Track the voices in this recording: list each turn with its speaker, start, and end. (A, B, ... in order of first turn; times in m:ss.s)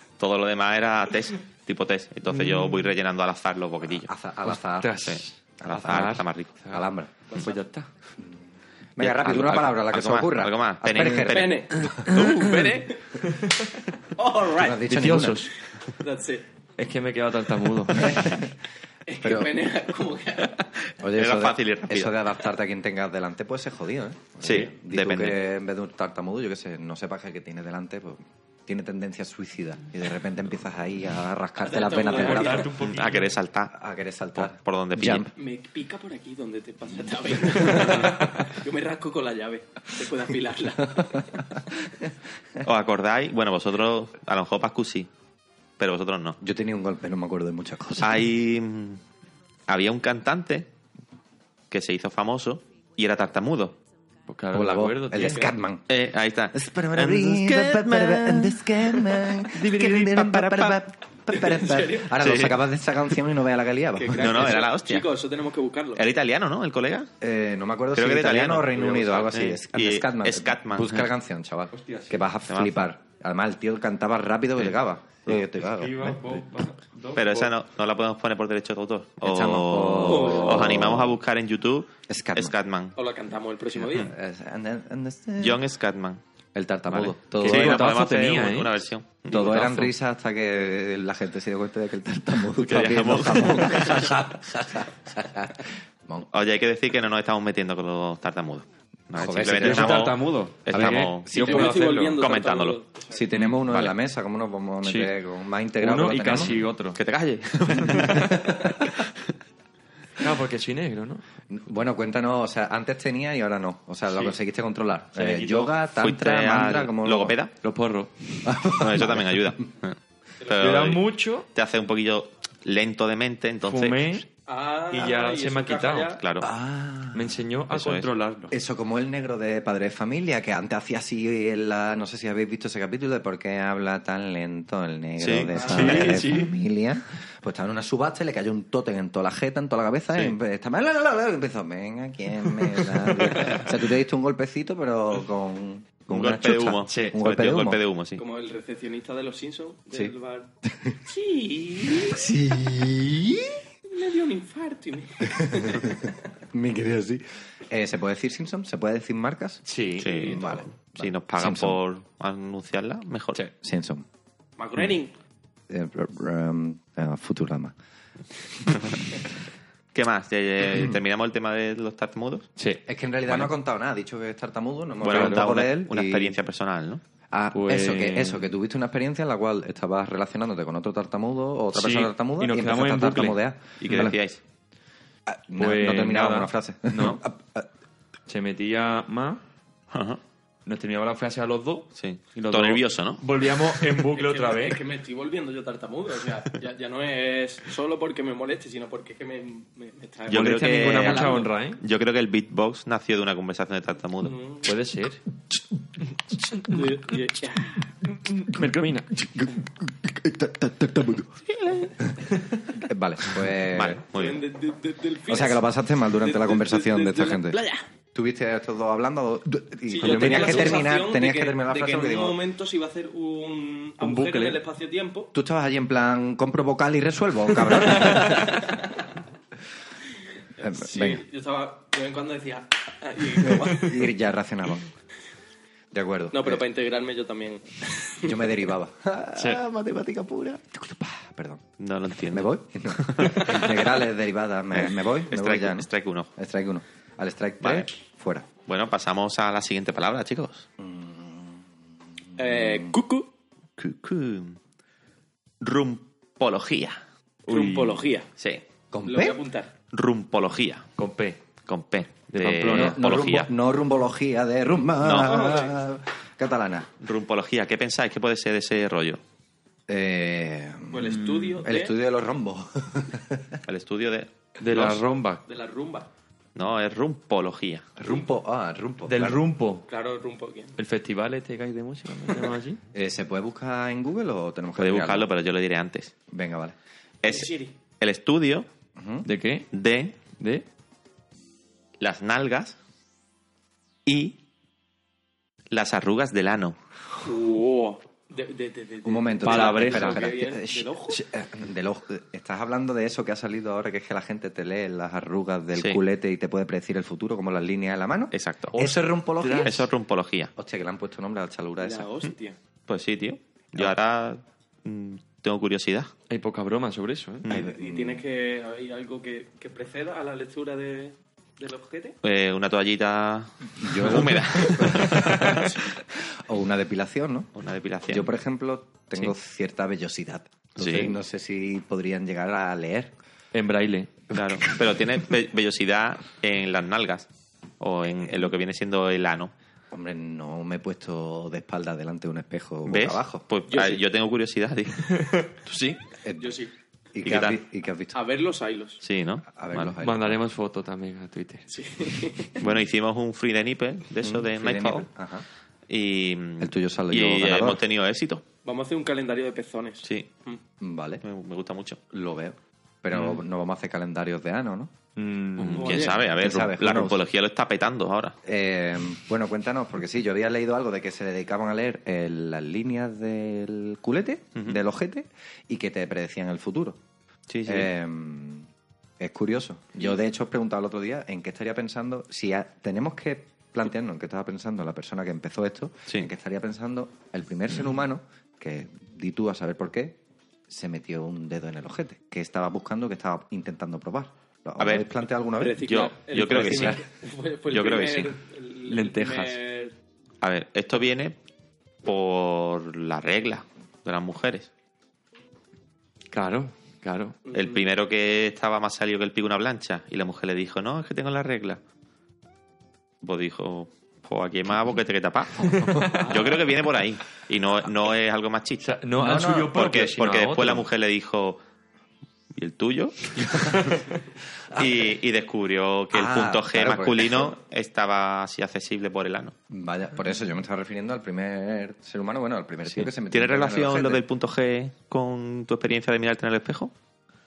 0:00.2-0:04.1 A
0:02.3-0:02.9 B
0:03.9-0:05.1 C
0:04.4-0:07.9 B
0:05.0-0:06.5 A
0:05.6-0:07.1 C
0:07.3-0:07.6 D
0:08.2-0:08.4 C
0:09.0-0:12.2 C
0:09.0-0:11.7 A
0:11.3-0:13.2 D
0:12.2-0:12.5 B
0:14.2-0:15.0 D
0:14.5-0:15.5 C
0:14.8-0:15.5 B
0:15.9-0:16.4 D
0:16.8-0:18.4 B
0:17.9-0:18.5 C
0:19.1-0:20.7 D
0:19.2-0:19.6 C
0:20.9-0:22.3 A
0:21.0-0:32.8 C
0:24.4-0:25.4 A
0:31.6-0:32.7 D
0:31.9-0:33.3 B
0:32.8-0:33.7 A
0:33.7-0:35.3 C
0:34.4-0:35.3 A
0:35.4-0:41.4 D
0:37.5-0:38.1 C
0:37.8-0:38.2 A
0:41.0-0:41.6 C
0:42.6-0:45.1 A
0:45.8-0:46.4 A
0:46.4-0:48.3 C
0:48.0-0:49.0 A
0:49.7-0:50.7 A
0:51.7-0:53.8 A
0:54.3-0:55.5 B
0:54.5-0:55.9 C
0:55.2-0:55.6 D
0:55.9-1:00.8 A
0:56.5-1:04.7 C
1:01.3-1:02.1 D
1:02.2-1:02.6 A
1:04.0-1:06.0 D
1:04.1-1:05.1 A
1:06.0-1:07.1 A
1:07.2-1:16.3 C
1:08.0-1:11.1 A
1:11.7-1:12.3 B
1:12.5-1:12.9 A
1:15.3-1:17.5 B
1:17.2-1:23.0 A
1:19.2-1:21.2 C
1:20.1-1:20.7 D
1:22.1-1:22.6 C
1:23.0-1:24.1 D
1:24.0-1:25.6 C
1:25.4-1:26.2 A
1:26.6-1:27.9 C
1:26.9-1:29.5 A
1:27.4-1:28.7 B
1:29.3-1:36.3 C
1:29.3-1:29.9 B
1:32.6-1:34.0 A
1:36.3-1:42.8 A
1:39.1-1:40.1 C
1:39.2-1:42.2 B
1:40.7-1:41.7 C
1:41.4-1:43.3 D
1:43.1-1:46.6 C
1:43.3-1:43.9 B
1:44.8-1:45.1 B
1:45.8-1:47.0 B
1:47.0-1:48.4 A
1:47.6-1:48.5 B
1:47.7-1:49.1 C
1:50.2-1:51.2 B
1:51.5-1:57.4 C
1:54.1-1:54.4 B
1:55.2-1:55.8 B
1:56.0-1:57.5 A
1:57.6-1:58.6 B
1:58.4-1:59.6 C
1:58.7-2:04.1 A
2:00.4-2:00.8 D
2:00.6-2:01.5 B
2:03.7-2:04.3 B
2:04.5-2:06.2 D
2:04.9-2:06.2 B
2:06.2-2:06.5 A
2:06.4-2:07.4 C
2:07.1-2:08.5 B
2:07.7-2:08.1 A
2:08.5-2:27.8 C
2:15.2-2:16.2 A
2:15.6-2:16.0 D
2:15.6-2:16.6 B
2:22.8-2:23.6 B
2:26.1-2:28.2 A
2:26.9-2:27.2 B
2:28.2-2:30.5 D
2:29.9-2:31.0 C
2:31.0-2:32.3 D
2:31.9-2:33.6 C
2:33.9-2:36.1 D
2:35.2-2:41.8 C
2:39.6-2:40.4 B
2:40.0-2:43.4 A
2:43.6-2:44.1 C
2:44.6-2:45.2 D
2:45.7-2:47.7 C
2:48.7-2:49.1 A
2:49.9-2:52.5 A
2:50.7-2:51.0 C
2:52.6-2:53.5 B
2:52.9-2:56.4 C
2:55.0-2:57.0 A
2:55.0-2:55.5 B
2:57.3-3:04.2 C
2:57.5-2:58.5 B
3:01.8-3:02.1 A
3:01.8-3:03.4 B
3:03.8-3:04.4 A
3:05.3-3:07.7 C
3:05.6-3:07.2 B
3:08.3-3:09.4 B
3:09.9-3:10.2 A
3:10.6-3:14.9 B
3:12.0-3:13.9 A
3:14.1-3:21.5 D
3:20.3-3:24.4 A
3:20.3-3:21.8 B
3:24.2-3:24.8 D
3:24.6-3:25.2 B
3:26.6-3:27.9 D
3:28.3-3:29.1 B
3:29.2-3:31.4 C
3:31.6-3:31.9 D
3:32.0-3:34.0 C
3:33.6-3:34.4 A
3:34.1-3:37.8 D
3:35.3-3:37.6 C
3:38.1-3:42.4 C
3:39.9-3:45.3 D
3:40.0-3:40.9 B
3:44.0-3:44.6 B
3:45.3-3:48.7 C
3:47.9-3:49.1 D
3:50.6-3:51.2 C
3:50.6-3:54.1 D
3:53.4-3:54.9 C
3:55.9-3:56.6 C
3:56.3-3:58.5 D
3:58.2-4:01.6 C
3:59.4-3:59.6 B
4:01.8-4:03.8 A
4:02.3-4:08.5 C
4:04.7-4:06.3 A
4:07.6-4:07.9 A
4:08.7-4:10.7 A
4:10.8-4:11.7 C
4:12.3-4:12.9 C
4:12.4-4:13.3 D
4:13.8-4:14.6 A
4:15.6-4:17.0 A
4:17.5-4:18.0 B
4:17.5-4:18.3 D
4:18.9-4:19.4 C
4:19.0-4:19.7 D
4:19.9-4:20.9 A
4:21.0-4:21.4 B
4:21.7-4:23.5 A
4:22.4-4:23.0 B
4:22.6-4:26.9 C
4:25.0-4:25.4 A
4:25.1-4:25.8 D
4:27.0-4:29.2 A
4:29.9-4:33.6 C
4:30.9-4:32.0 D
4:33.7-4:35.0 A
4:34.6-4:35.4 B
4:35.5-4:36.1 D
4:36.6-4:37.9 A
4:38.0-4:39.4 C
4:39.1-4:39.9 B
4:39.9-4:40.8 D
4:40.8-4:42.8 B
4:42.9-4:45.3 C
4:44.8-4:46.1 A
4:46.3-4:46.8 C
4:47.2-4:48.7 A
4:47.2-4:47.7 D
4:49.0-4:49.3 C
4:49.2-4:49.7 B
4:49.7-4:50.2 A
4:50.4-4:50.6 B
4:52.0-4:52.8 A
4:54.1-4:54.4 A
4:55.7-4:56.8 A
4:57.2-5:01.2 D
4:59.0-5:09.9 C
4:59.4-5:00.4 B
5:08.3-5:08.8 A
5:08.7-5:09.9 B
5:09.6-5:10.5 A
5:10.6-5:12.1 C
5:11.8-5:12.6 D
5:12.9-5:16.1 A
5:16.3-5:17.5 B
5:17.4-5:17.7 A
5:17.5-5:18.2 C
5:17.5-5:22.2 D
5:22.2-5:25.7 A
5:23.8-5:27.5 C
5:24.8-5:25.6 B
5:27.6-5:28.3 A
5:28.1-5:33.1 C
5:30.8-5:31.2 A
5:30.8-5:31.1 B
5:33.5-5:34.2 B
5:34.3-5:37.3 A
5:34.3-5:35.1 C
5:37.8-5:39.5 A
5:38.2-5:38.6 C
5:39.9-5:43.4 C
5:42.9-5:45.3 A
5:43.7-5:44.0 D
5:45.2-5:45.7 B
5:45.8-5:46.6 C
5:46.4-5:46.7 D
5:47.2-5:48.2 C
5:47.2-5:47.6 A
5:48.1-5:49.0 D
5:49.0-5:49.9 A
5:49.5-5:50.4 C
5:50.0-5:51.7 B
5:51.7-5:52.6 D
5:52.6-5:55.1 A
5:54.2-5:55.5 C
5:55.9-5:58.4 A
5:56.6-5:57.8 C
5:58.6-6:00.6 D
6:00.8-6:01.2 C
6:01.2-6:02.0 A
6:02.1-6:04.9 C
6:03.1-6:03.4 B
6:05.2-6:06.0 B
6:05.6-6:08.4 A
6:05.8-6:06.2 D
6:05.9-6:07.2 C
6:08.4-6:17.0 C
6:17.5-6:17.9 A
6:17.7-6:18.7 C
6:19.2-6:35.8 C
6:34.8-6:35.1 A
6:35.6-6:40.0 D
6:35.8-6:37.0 A
6:36.6-6:37.0 C
6:37.7-6:38.4 A
6:38.9-6:39.6 B
6:40.4-6:41.4 A
6:42.0-6:44.7 A
6:46.3-6:47.4 B
6:47.5-6:47.9 D
6:47.5-6:51.8 A
6:53.2-6:58.9 A
6:55.6-6:56.3 C
6:55.8-6:56.4 B
6:56.2-6:56.7 D
6:58.8-7:00.9 B
6:59.2-6:59.8 C
6:59.7-7:01.6 A
7:02.6-7:04.0 A
7:03.4-7:03.9 C
7:04.7-7:05.2 C
7:04.7-7:09.5 A
7:06.1-7:07.6 C
7:09.7-7:14.2 C
7:12.9-7:16.9 A